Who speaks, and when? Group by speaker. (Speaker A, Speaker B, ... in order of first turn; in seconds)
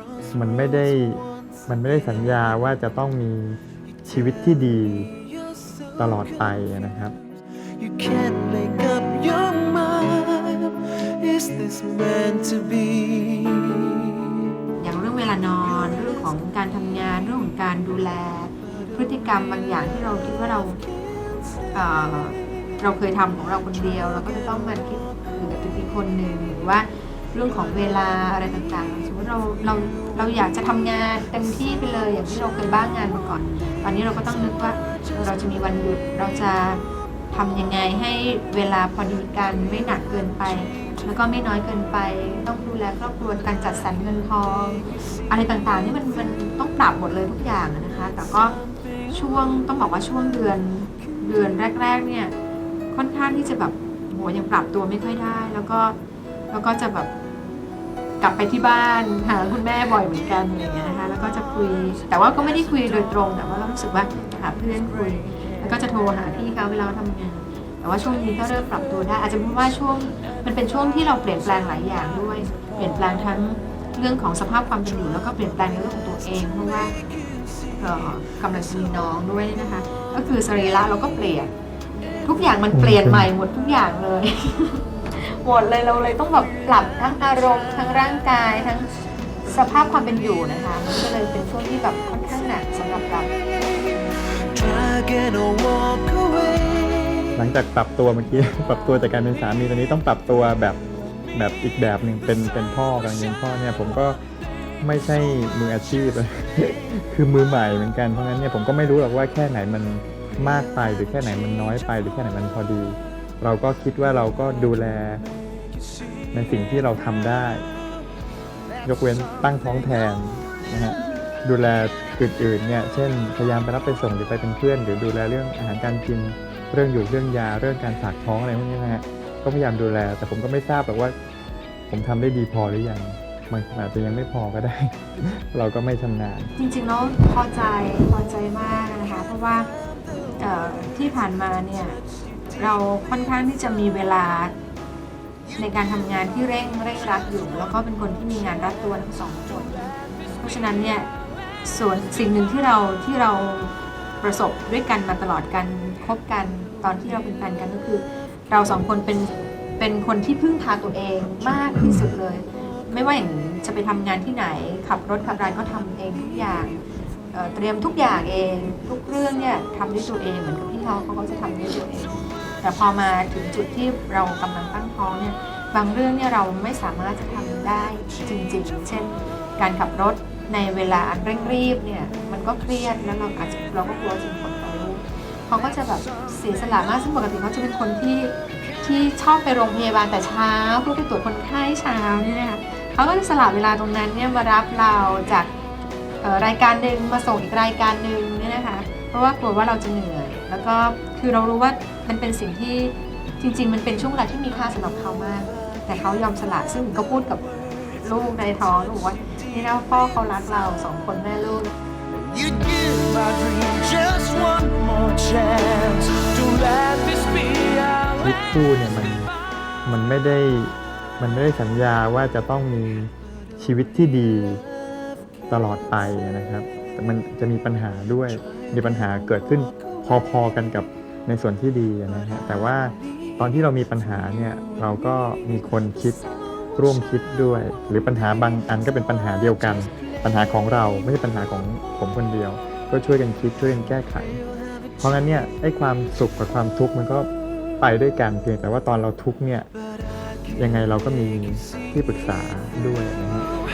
Speaker A: 0.3-5.1, 6.0-7.1, 82.7-83.3, 97.4-100.8, 101.3-104.2, 104.8-115.2, 116.3-117.7, 118.8-131.1, 131.9-136.5, 218.2-219.3, 219.9-224.6, 225.5-236.2, 236.8-244.4, 245.0-247.3, 247.8-249.7, 250.5-253.5
Speaker B: 7.8-14.5, 94.5-97.3, 212.3-218.2
Speaker C: 14.8-20.8, 21.7-48.5, 49.1-52.3, 52.9-56.0, 56.5-57.1, 58.2-76.9, 77.8-81.5, 82.2-88.9, 89.5-93.3, 136.6-139.7, 140.4-142.0, 142.6-144.5, 145.6-151.1, 151.6-166.8, 167.3-195.5, 196.2-211.7